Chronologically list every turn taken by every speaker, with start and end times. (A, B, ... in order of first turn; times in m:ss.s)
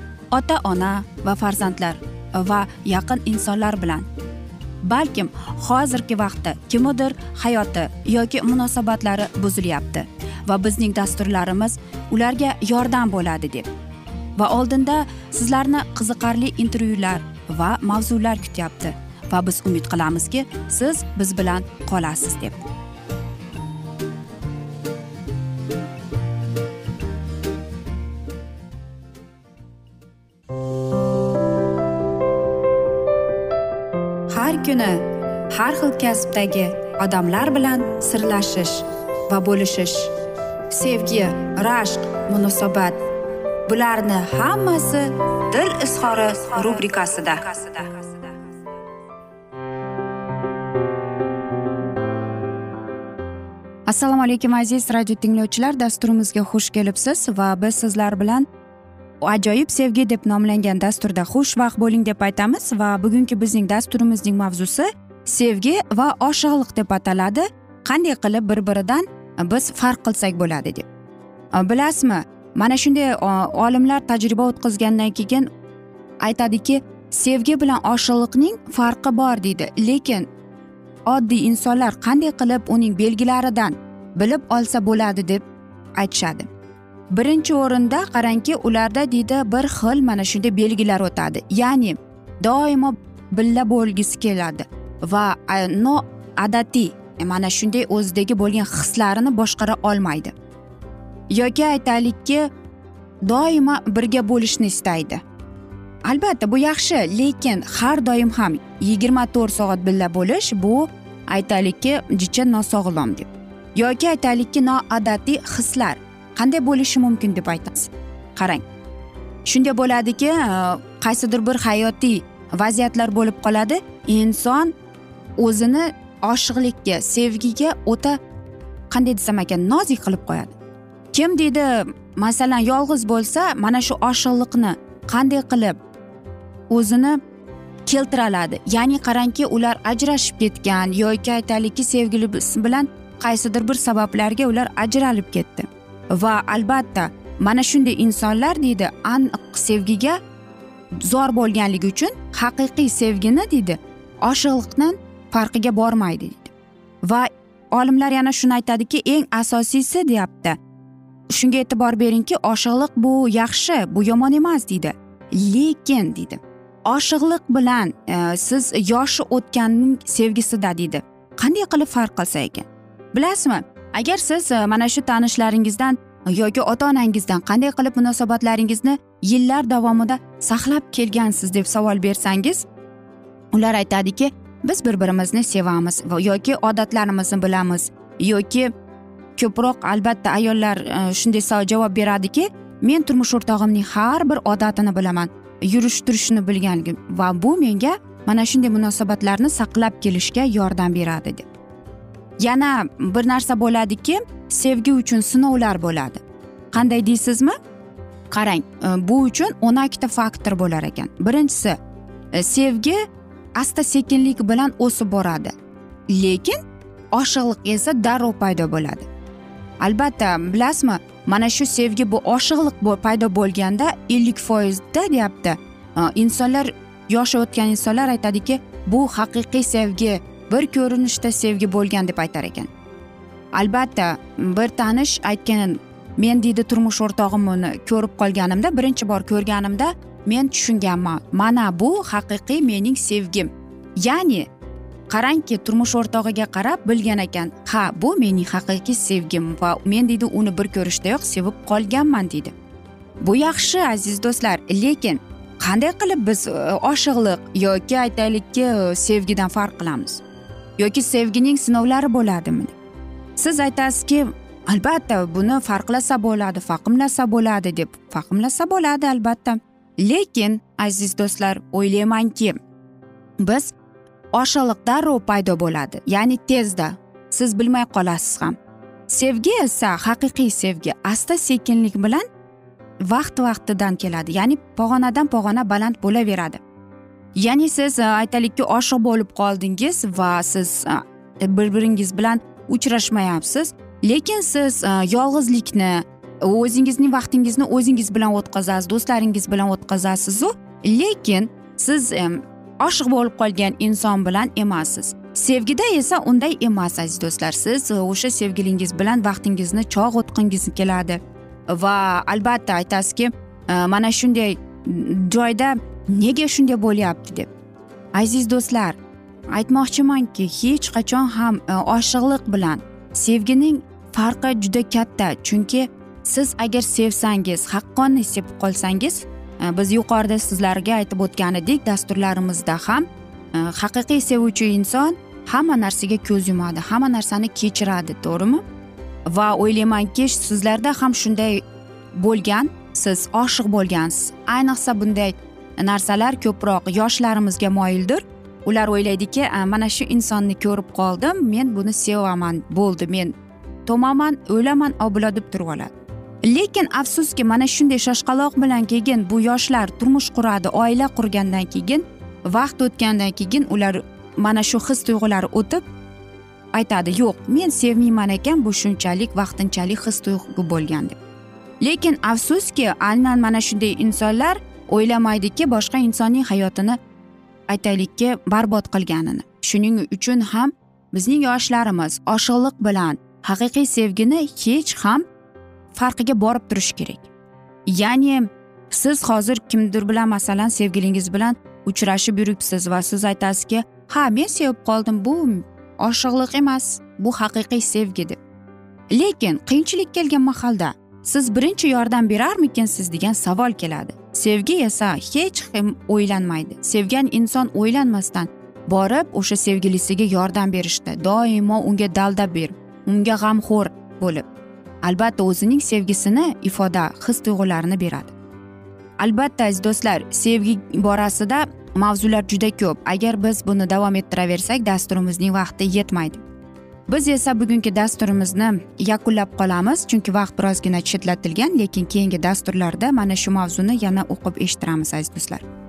0:00.3-0:04.1 A
0:04.8-0:13.7 A
0:14.4-0:22.6 A
0:34.3-0:40.1 A
0:40.7-0:43.0 A
0:43.7-0:48.3 A
0:53.9-0:58.5 A
0:59.2-1:10.9 A
1:11.5-1:15.5 A
1:16.2-1:20.3 A
1:21.1-1:25.4 A
1:26.0-1:26.5 A
1:27.1-1:40.3 A
1:41.3-1:42.5 A
1:43.2-1:45.2 A
1:46.0-1:58.6 A
1:59.4-2:04.7 A
2:05.4-2:08.2 A
2:08.9-2:10.6 A
2:11.1-2:15.8 A
2:16.7-2:17.2 A
2:17.8-2:30.2 A
2:31.0-2:36.5 A
2:37.0-2:40.6 A
2:41.3-3:02.6 A
3:03.5-3:08.7 A
3:09.4-3:21.5 A
3:22.4-3:27.6 A
3:28.3-3:31.8 A
3:32.3-3:33.0 A
3:33.6-3:35.5 A
3:36.1-3:36.6 A
3:37.1-3:39.1 A
3:39.8-3:52.7 A
3:53.5-4:04.5 A
4:05.1-4:12.5 A
4:13.2-4:20.2 A
4:20.8-4:22.7 A
4:23.4-4:32.6 A
4:33.4-4:33.7 A
4:34.3-4:38.6 A
4:39.1-4:42.2 A
4:43.0-4:46.6 A
4:47.4-5:17.5 A
5:18.1-5:19.0 A
5:19.5-5:38.6 A
5:39.3-5:53.3 A
5:53.8-5:55.9 A
5:56.4-6:05.8 A
6:06.7-6:11.2 A
6:11.8-6:17.0 A
6:17.7-6:25.2 A
6:25.9-6:27.3 A
6:27.9-6:38.4 A
6:39.1-6:54.5 A
6:55.0-6:58.3 A
6:59.2-7:06.4 A
7:07.1-7:15.6 A